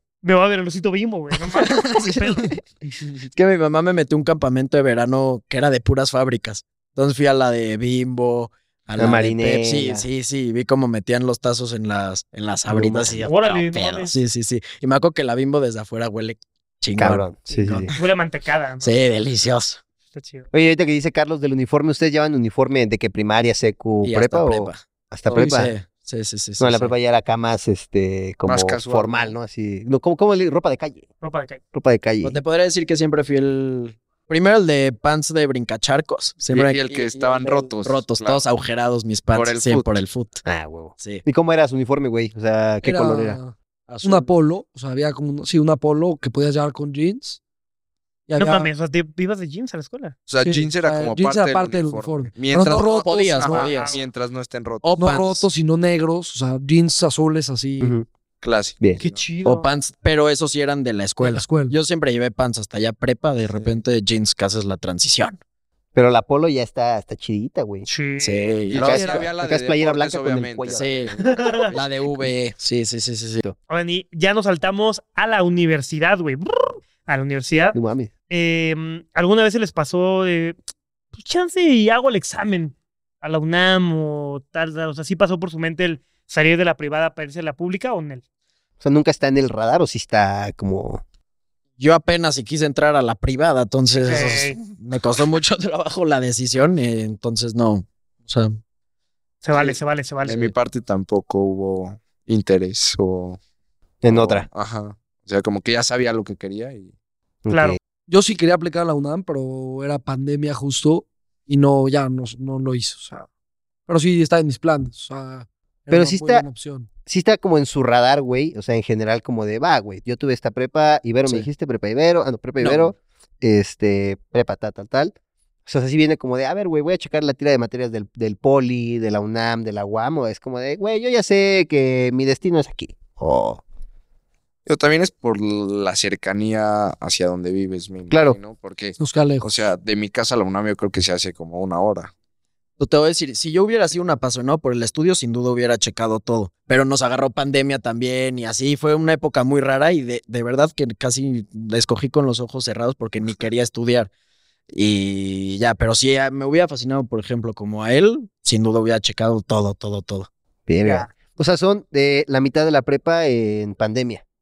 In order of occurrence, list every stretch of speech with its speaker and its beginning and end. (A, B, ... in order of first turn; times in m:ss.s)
0:00.2-0:02.6 A
0:01.5-0:02.5 B
0:03.3-0:17.9 B
0:09.0-0:10.0 C
0:12.7-0:13.2 C
0:13.2-0:14.1 A
0:17.0-0:17.9 C
0:17.5-0:19.0 A
0:18.8-0:19.8 B
0:20.1-0:20.5 A
0:20.5-0:25.7 C
0:24.0-0:26.9 B
0:26.6-0:31.1 C
0:28.4-0:29.4 D
0:31.2-0:31.6 A
0:31.7-0:32.4 C
0:32.2-0:40.4 B
0:36.5-0:38.4 D
0:39.3-0:40.0 D
0:40.4-0:43.4 C
0:41.0-0:41.2 B
0:42.8-0:47.4 E
0:43.9-0:44.3 B
0:48.3-0:48.7 E
0:48.4-0:50.2 A
0:50.3-0:54.9 D
0:50.4-0:53.6 E
0:52.7-0:54.0 B
0:53.5-0:54.0 A
0:54.8-0:55.5 B
0:55.0-0:57.9 E
0:58.4-0:59.2 D
0:59.0-0:59.7 A
0:59.4-1:05.4 B
1:01.2-1:01.7 E
1:05.9-1:07.9 C
1:07.8-1:08.5 A
1:08.2-1:09.2 B
1:08.7-1:11.8 D
1:08.8-1:10.9 C
1:10.7-1:11.2 B
1:11.2-1:11.7 A
1:11.7-1:13.4 B
1:13.7-1:17.8 A
1:17.7-1:18.1 C
1:18.3-1:20.6 A
1:21.1-1:28.2 A
1:28.8-1:31.0 C
1:31.8-1:38.6 B
1:34.0-1:34.6 A
1:39.4-1:40.5 A
1:40.2-1:43.4 D
1:44.0-1:44.5 C
1:44.0-1:46.9 D
1:47.4-1:47.8 C
1:47.5-1:47.8 A
1:48.1-1:53.3 E
1:53.9-1:56.9 E
1:55.9-1:56.4 C
1:57.0-2:05.1 C
2:02.6-2:02.9 B
2:05.6-2:13.6 C
2:14.6-2:22.1 D
2:18.1-2:18.4 C
2:19.0-2:19.5 E
2:22.8-2:34.1 B
2:34.7-2:40.3 B
2:40.7-2:44.2 C
2:40.8-2:41.1 A